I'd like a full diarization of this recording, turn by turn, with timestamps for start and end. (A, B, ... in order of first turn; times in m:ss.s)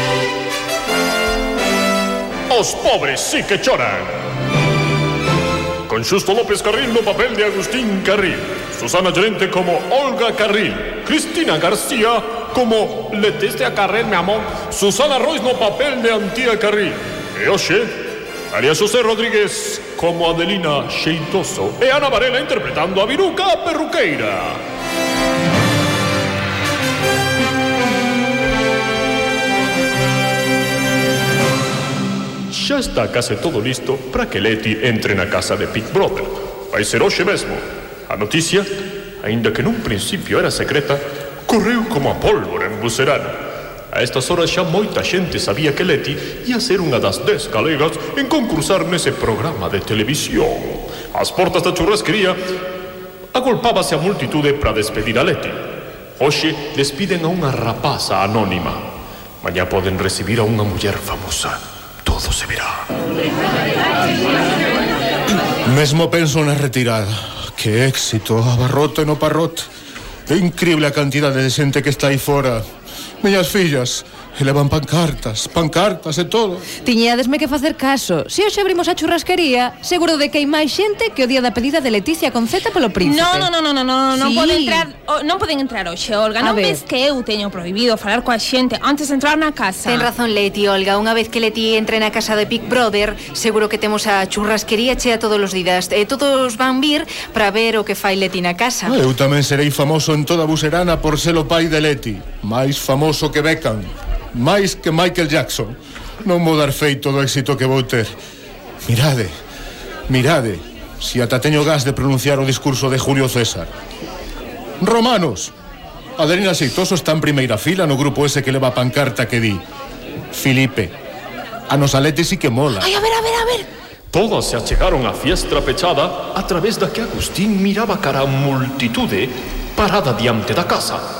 0:02.5-0:04.1 A
0:05.9-0:17.9 A
0:18.5-0:24.6 A
0:32.5-0:38.7 A
0:39.2-0:43.4 A
0:43.9-0:52.4 A
0:53.3-0:55.6 A
0:56.2-0:58.8 A
0:59.4-1:02.8 A
1:05.6-1:09.6 B
1:10.3-1:12.6 B
1:13.2-1:16.6 B
1:16.8-1:23.5 C
1:23.0-1:30.1 D
1:24.1-1:24.9 C
1:26.4-1:26.8 C
1:29.8-1:38.9 E
1:38.8-1:48.2 B
1:48.8-1:49.3 B
1:50.1-1:53.7 B
1:54.8-1:55.5 B
1:56.2-1:59.6 B
2:00.3-2:00.9 B
2:01.7-2:02.9 B
2:02.8-2:03.7 D
2:04.1-2:11.0 A